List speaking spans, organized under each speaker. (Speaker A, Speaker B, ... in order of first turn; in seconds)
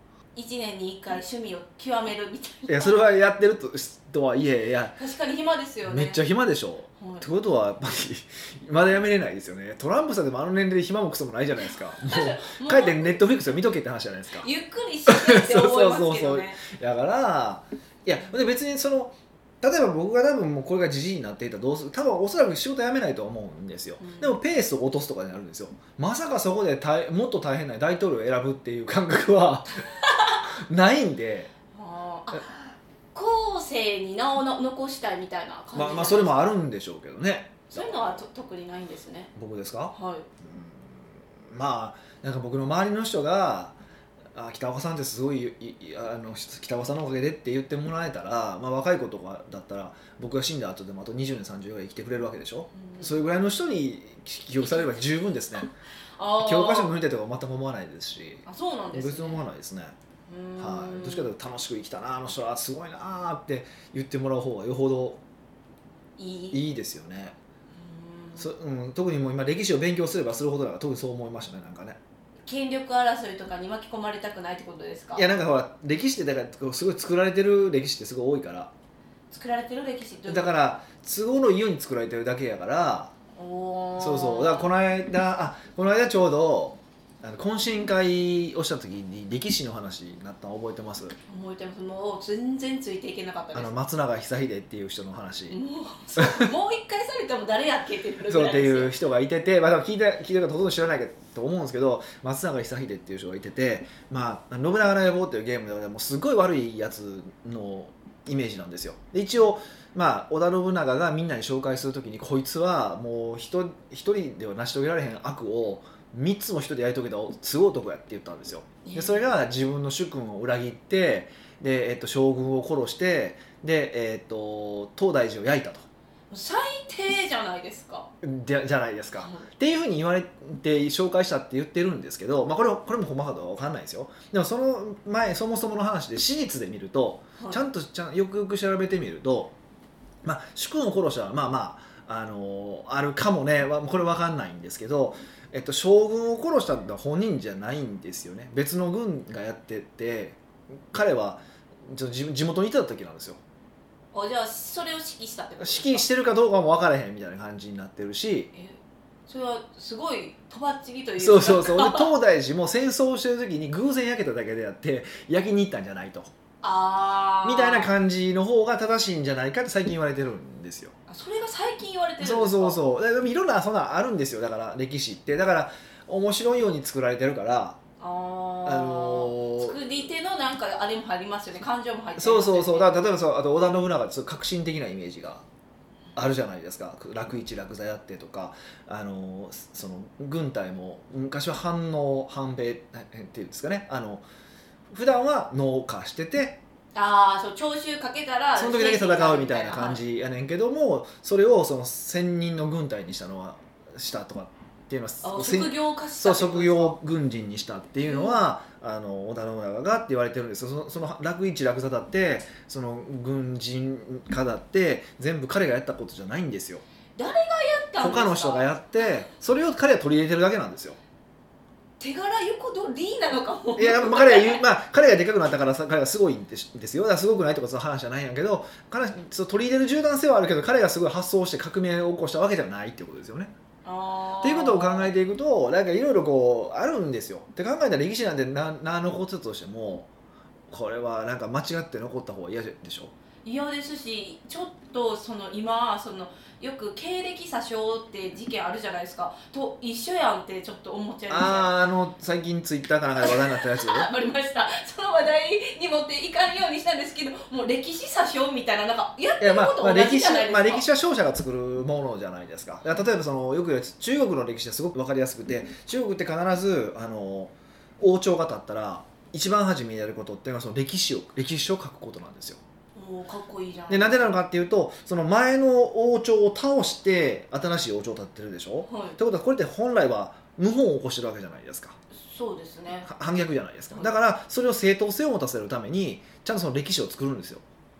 Speaker A: 0.3-3.0, 5.0-6.2, 7.0-7.3, 12.0-13.2, 14.4-16.6, 24.0-24.4, 29.9-30.4, 31.7-32.6, 33.1-36.5, 37.7-39.3, 39.9-40.3, 52.8-53.2, 56.2-57.0, 58.5-59.4, 60.3-61.3, 66.2-66.6, 67.7-68.5, 72.5-75.3, 79.3-80.5, 83.3-84.7, 91.3-93.7, 95.5-98.9, 118.8-119.3, 126.3-128.1, 129.2-129.5, 137.4-137.6, 154.1-156.1, 158.5-162.1, 166.6-167.9, 171.1-172.8, 178.0-183.0, 196.9-200.0, 205.2-207.0, 208.0-208.4, 217.2-218.7, 222.0-224.6, 233.8-235.1, 243.4-251.7, 253.2-260.9, 272.9-274.4, 278.9-279.2, 282.1-283.1
Speaker B: 2.7-5.0, 5.8-14.5, 15.1-29.9, 30.5-31.5, 35.7-38.2, 39.4-43.8, 44.4-55.7, 56.4-60.0, 60.6-65.2, 66.5-67.4, 68.4-72.0, 75.2-78.7, 80.3-83.1, 84.0-91.2, 93.5-95.6, 96.2-96.5, 98.3-125.9, 128.2-139.5, 140.2-150.4, 150.9-153.4, 155.6-158.5, 161.2-166.3, 167.4-170.9, 172.2-177.8, 178.7-179.8, 182.2-185.4, 186.2-194.2, 194.9-196.6, 198.6-216.8, 218.0-221.0, 223.8-233.5, 234.4-240.1, 240.7-243.1, 251.3-254.1, 259.4-272.6, 273.9-282.0, 283.0-287.6